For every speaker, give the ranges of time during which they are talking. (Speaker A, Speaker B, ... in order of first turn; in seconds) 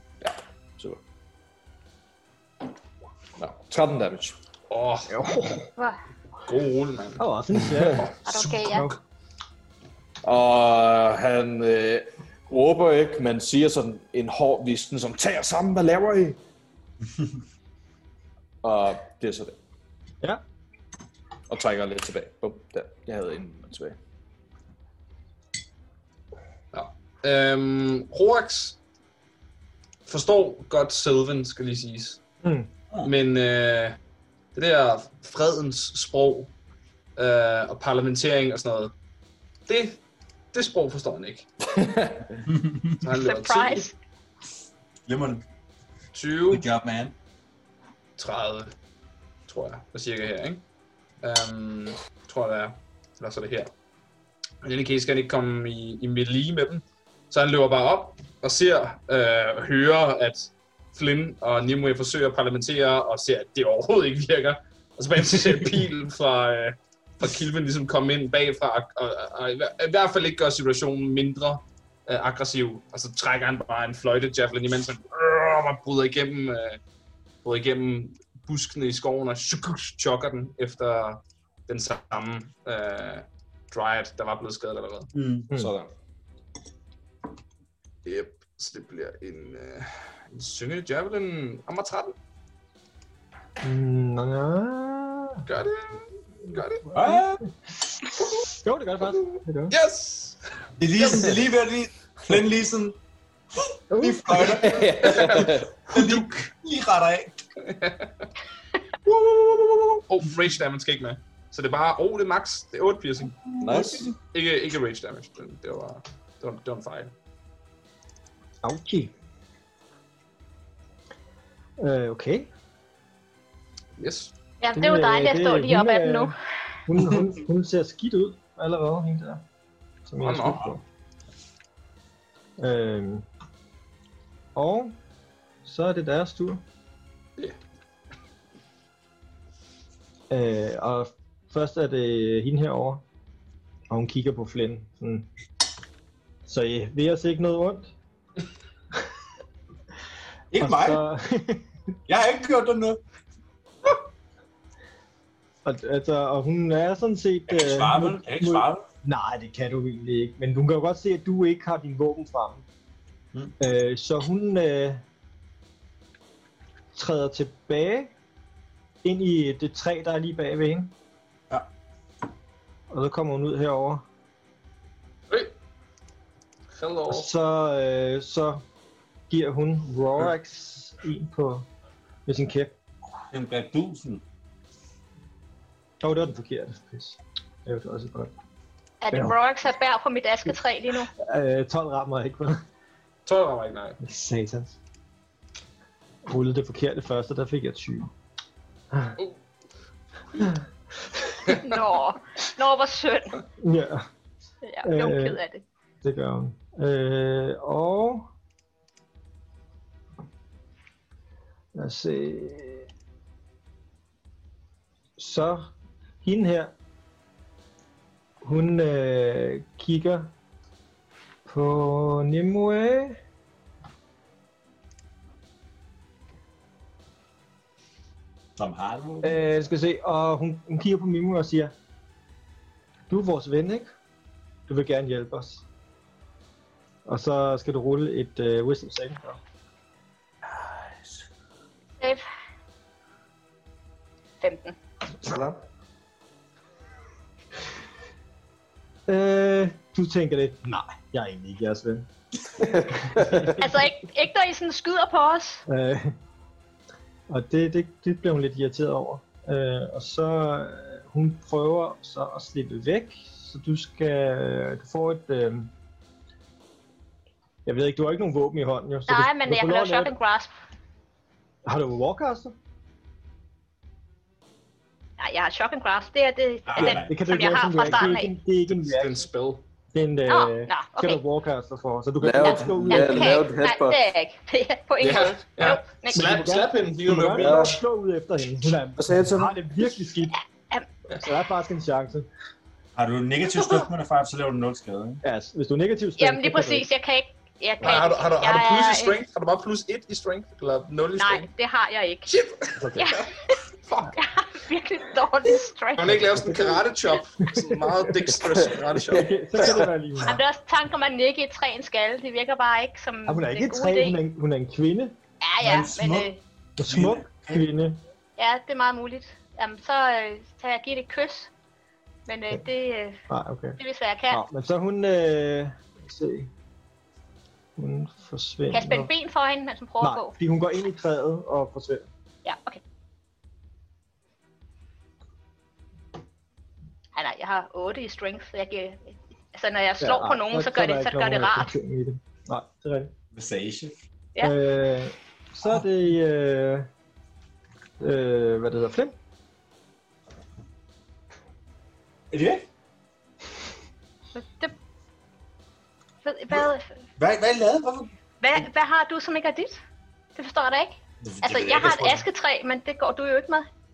Speaker A: 0.2-1.0, 3.4-4.3, 10.2-16.4, 18.6-19.6, 21.5-23.9, 41.7-42.4, 85.5-85.9, 104.4-105.8, 113.6-114.1, 240.4-241.3, 245.2-245.6, 252.6-253.5, 282.2-284.0, 287.4-287.8, 289.0-289.6, 308.5-309.3
Speaker B: 4.7-5.1, 6.5-7.2, 7.8-8.9, 26.7-28.8, 30.1-32.2, 33.0-34.0, 34.5-36.5, 37.2-38.9, 39.7-40.0, 40.5-41.5, 43.0-43.9, 46.1-46.6, 48.2-48.7, 49.5-50.6, 51.2-53.7, 54.6-76.8, 77.4-85.1, 88.0-92.1, 95.5-96.9, 99.0-100.4, 101.0-101.3, 105.2-105.5, 107.6-108.3, 109.0-113.6, 114.2-117.1, 124.0-124.3, 130.2-130.7, 176.7-177.3, 193.3-194.0, 278.7-279.6, 285.0-287.8, 297.8-301.5, 302.3-303.2, 303.9-304.1, 305.9-309.9
Speaker C: 5.1-5.7, 7.2-8.9, 32.4-32.7, 93.6-95.5, 96.9-99.8, 103.9-104.7, 118.6-119.1, 121.8-122.5, 124.8-126.3, 126.9-129.4, 130.1-130.8, 132.6-133.3, 134.6-135.0, 135.6-136.6, 140.3-143.0, 143.9-145.3, 146.4-147.9, 150.6-151.9, 155.6-162.6, 163.6-165.0, 166.9-168.1, 169.0-170.9, 172.9-174.0, 177.1-178.6, 179.3-181.7, 182.3-182.8, 186.0-188.3, 191.1-192.6, 194.0-194.8, 196.3-198.1, 198.9-199.2, 200.4-201.4, 203.6-204.1, 204.8-205.4, 206.0-208.3, 211.8-212.9, 215.2-215.7, 216.2-216.7, 218.4-220.3, 221.4-223.2, 229.2-231.7, 233.1-233.9, 234.7-235.6, 237.1-239.4, 249.1-252.1, 253.1-253.8, 255.7-256.1, 257.3-265.7, 267.6-270.1, 271.7-272.6, 276.8-279.3, 279.9-283.5, 286.1-290.4, 291.2-292.3, 295.2-296.9, 307.4-308.3, 309.1-310.4, 313.3-315.2, 316.8-318.0, 323.3-323.8, 324.3-326.5, 327.8-329.1, 330.0-332.1, 340.0-343.1, 344.4-346.9, 348.0-349.2
Speaker D: 8.2-8.9, 43.1-44.0, 124.6-126.3, 189.0-191.1, 201.5-203.4, 204.6-205.6, 242.0-242.2, 244.4-244.8, 253.6-255.6, 269.1-270.5, 275.2-278.4, 280.3-281.2, 282.4-286.5, 290.3-290.9, 296.2-299.2, 301.2-302.4, 302.9-303.6, 304.1-306.4, 310.2-314.2, 315.4-316.4, 318.4-321.5, 322.3-323.2, 323.8-324.4, 328.7-330.4, 332.4-332.8, 337.1-341.7, 354.4-354.8, 356.2-357.0, 358.4-359.8, 360.4-363.7
Speaker E: 42.5-43.0, 45.1-45.4, 46.5-47.1, 85.1-85.5, 96.9-97.4, 100.8-103.0, 103.6-107.4, 113.6-114.1, 150.5-151.0, 152.1-153.0, 157.5-158.8, 183.3-184.2, 228.6-229.4, 276.7-277.1, 292.9-295.2, 315.6-316.3, 316.8-317.6, 343.3-343.9, 352.3-352.6, 357.2-358.1, 361.2-362.3